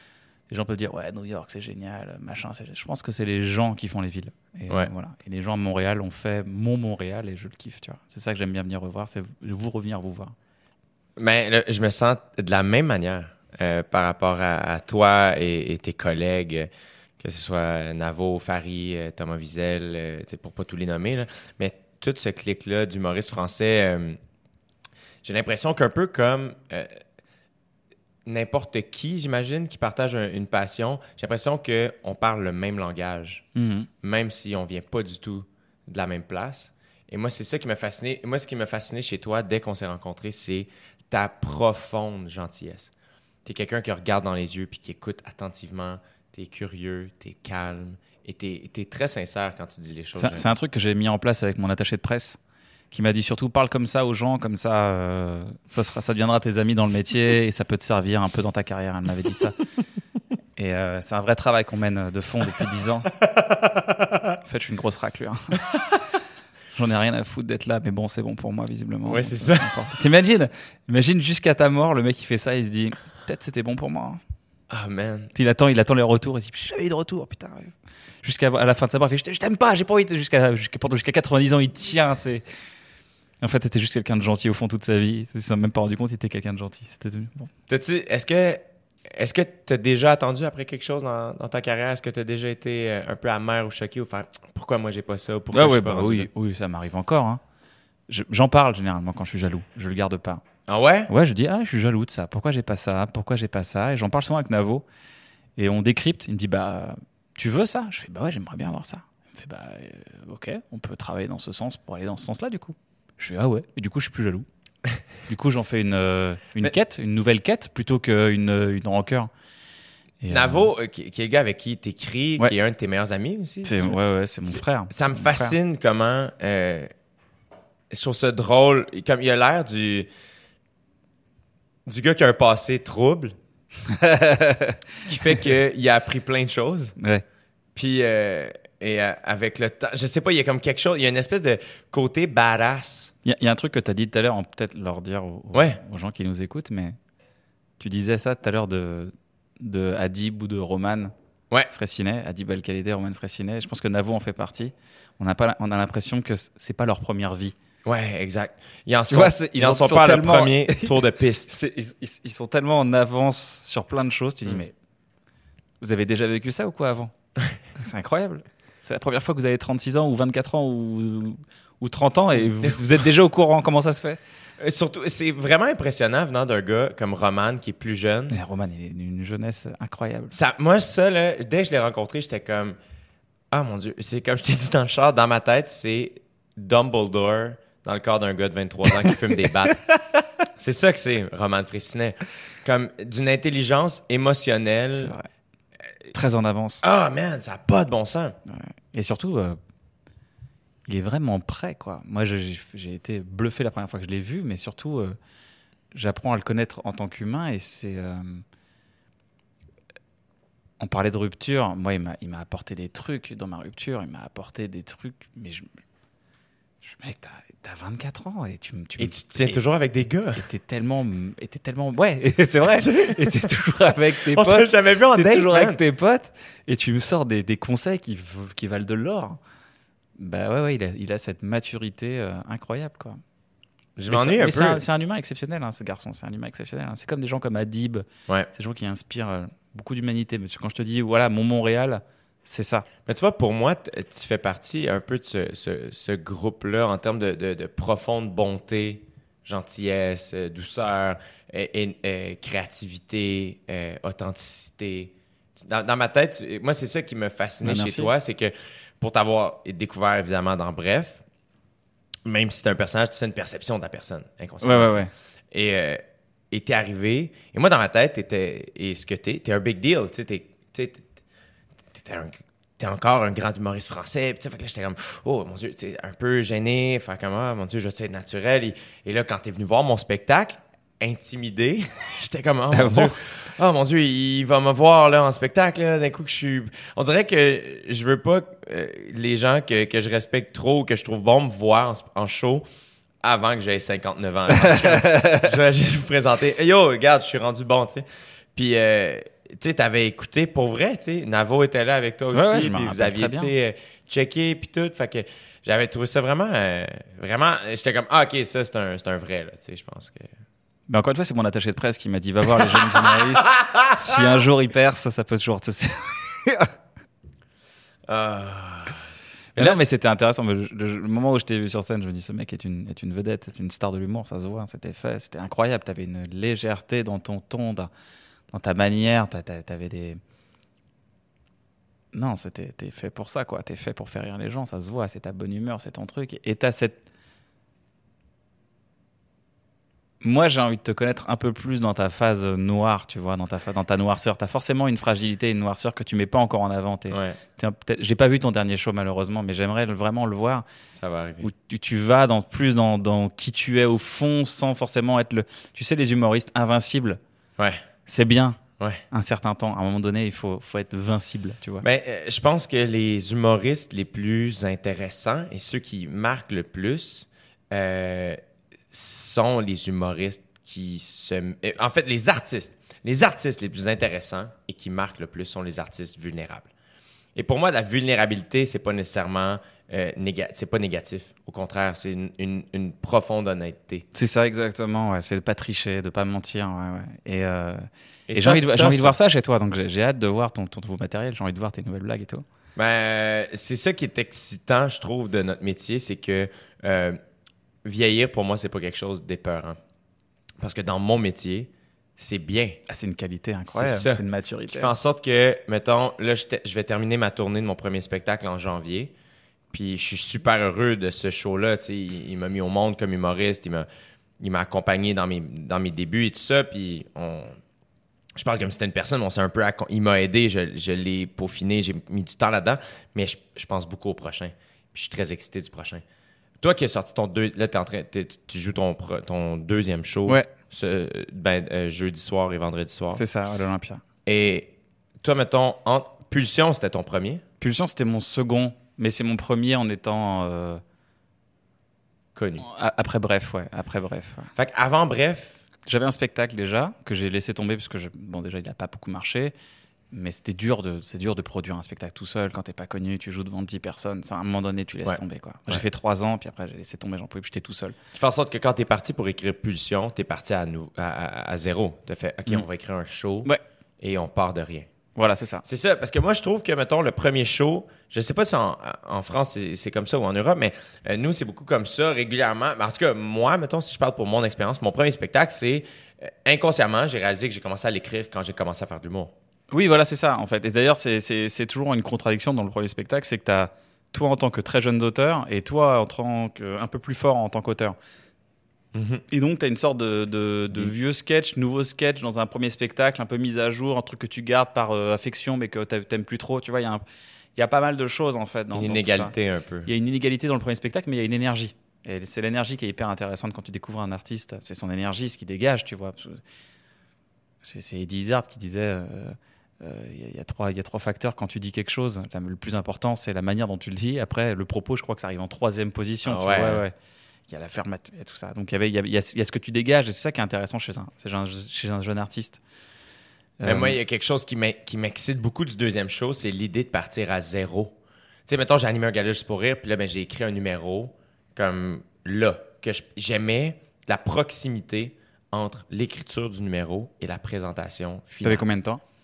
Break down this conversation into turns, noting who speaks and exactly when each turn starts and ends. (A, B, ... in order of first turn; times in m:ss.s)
0:00.5-0:10.4 A
0:11.2-0:16.7 B
0:17.2-0:24.2 B
0:25.2-0:27.0 B
0:28.3-0:33.5 B
0:33.6-0:33.9 A
0:34.0-0:42.9 B
0:43.4-0:50.5 B
0:50.2-0:52.4 A
0:52.9-0:59.6 A
1:00.6-1:03.1 A
1:04.4-1:05.6 A
1:06.7-1:14.2 A
1:09.1-1:09.8 B
1:14.7-1:15.3 B
1:15.3-1:22.4 A
1:23.4-1:27.5 A
1:27.7-1:36.3 B
1:35.5-1:37.4 A
1:38.1-1:40.4 A
1:40.7-1:41.1 B
1:41.1-1:44.8 A
1:45.6-1:54.5 A
1:55.3-1:59.3 A
2:00.2-2:00.7 A
2:00.3-2:06.9 B
2:03.6-2:05.6 A
2:07.9-2:10.1 B
2:11.9-2:13.4 B
2:13.9-2:15.4 A
2:15.1-2:17.0 B
2:17.0-2:17.2 A
2:17.8-2:23.1 B
2:23.2-2:27.0 A
2:25.5-2:25.8 B
2:27.8-2:31.1 A
2:31.7-2:37.6 A
2:37.8-2:41.5 B
2:39.1-2:41.0 A
2:41.5-2:44.7 A
2:45.8-2:47.1 A
2:47.8-2:54.2 A
2:54.6-2:58.4 B
2:58.3-3:00.3 A
3:00.3-3:02.8 B
3:03.5-3:09.8 B
3:10.6-3:15.1 B
3:15.0-3:15.3 A
3:16.1-3:16.8 A
3:16.8-3:18.4 B
3:18.5-3:19.6 A
3:20.9-3:25.2 A
3:25.9-3:28.4 A
3:30.8-3:35.7 A
3:36.8-3:39.6 A
3:39.0-3:40.4 B
3:40.4-3:49.4 A
3:42.8-3:43.5 B
3:44.2-3:45.8 B
3:50.2-3:53.2 A
3:54.0-3:54.8 B
3:54.1-4:02.9 A
4:03.0-4:21.2 B
4:17.6-4:18.1 A
4:22.3-4:31.1 B
4:24.6-4:25.1 A
4:31.9-4:52.6 B
4:42.7-4:43.2 A
4:53.2-5:10.3 B
4:54.5-4:55.5 A
5:02.3-5:03.5 A
5:10.9-5:16.7 A
5:12.6-5:14.4 B
5:18.1-5:19.0 B
5:19.6-5:27.9 A
5:28.5-5:30.2 A
5:32.1-5:37.0 A
5:40.2-5:50.6 A
5:47.1-5:47.4 B
5:51.0-5:51.5 B
5:51.4-5:57.2 A
5:58.1-5:58.6 A
5:59.1-6:01.8 A
6:01.8-6:08.4 B
6:08.9-6:16.7 B
6:17.4-6:24.1 B
6:24.1-6:32.4 A
6:28.3-6:29.2 B
6:32.8-6:37.2 B
6:37.8-6:39.8 B
6:40.6-6:42.8 B
6:42.9-6:44.9 A
6:43.7-6:49.1 B
6:49.7-6:53.9 B
6:54.4-6:57.6 B
6:58.4-7:06.0 B
7:06.6-7:13.2 B
7:13.1-7:14.0 A
7:14.2-7:17.4 B
7:17.6-7:20.8 A
7:22.4-7:22.7 B
7:22.6-7:24.5 A
7:24.6-7:25.6 B
7:25.9-7:29.5 A
7:30.1-7:38.0 A
7:35.0-7:35.8 B
7:38.1-7:44.9 B
7:45.2-7:45.6 A
7:45.6-7:59.3 B
7:59.7-8:08.0 A
8:08.9-8:09.2 B
8:09.3-8:17.0 A
8:17.6-8:19.3 A
8:18.8-8:19.9 B
8:19.9-8:26.4 A
8:27.6-8:36.9 A
8:36.3-8:36.8 B
8:37.5-8:42.6 A
8:43.6-8:44.0 A
8:43.6-8:58.6 B
8:58.4-8:59.0 A